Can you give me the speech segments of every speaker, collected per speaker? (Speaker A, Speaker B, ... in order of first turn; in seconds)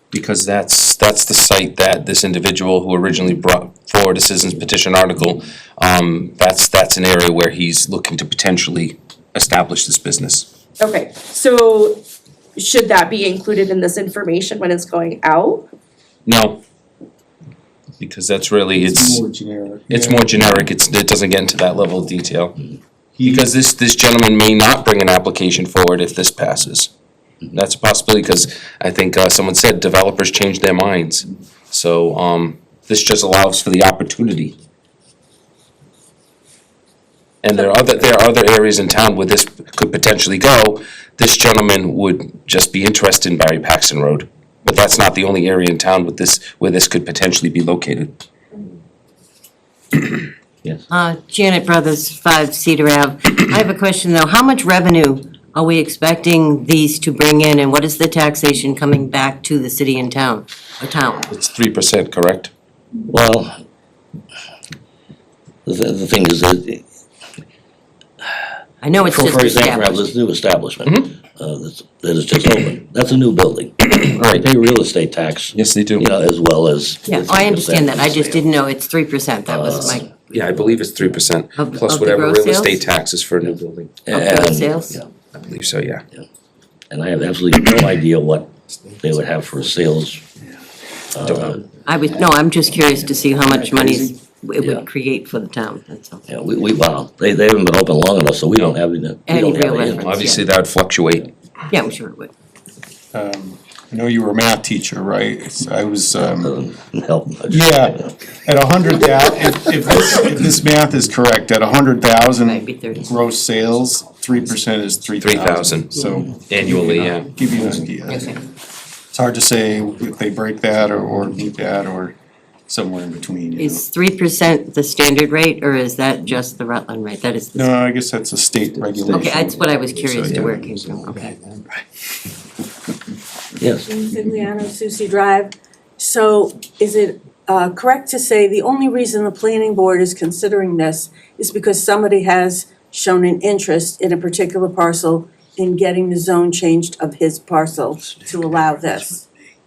Speaker A: 0.1-10.5, 16.3-16.6, 18.0-19.2, 19.9-22.6, 23.2-26.9, 27.5-34.6, 37.4-48.1, 61.3-62.5, 70.8-71.1, 73.9-74.5, 75.5-76.1, 80.3-84.1, 85.3-86.0, 91.2-91.7, 100.0-101.3, 115.2-115.9, 116.5-117.4, 129.3-131.6
Speaker B: 10.8-15.7
Speaker C: 18.8-20.3, 23.2-23.5, 103.1-106.5, 107.5-118.3, 119.1-122.2, 122.7-123.8, 127.5-129.7
Speaker D: 50.9-61.3, 68.8-70.1, 77.1-80.1, 81.5-82.8, 84.1-85.0, 91.8-96.3, 99.3-100.5, 101.7-102.3, 112.4-113.2, 118.1-118.4, 123.6-127.7, 129.1-131.3
Speaker E: 63.1-63.6, 65.7-66.8, 69.0-78.5, 79.5-81.2, 83.5-85.0, 86.9-90.2, 91.2-91.6, 96.3-100.1, 106.3-108.1, 133.6-133.9
Speaker F: 133.9-149.3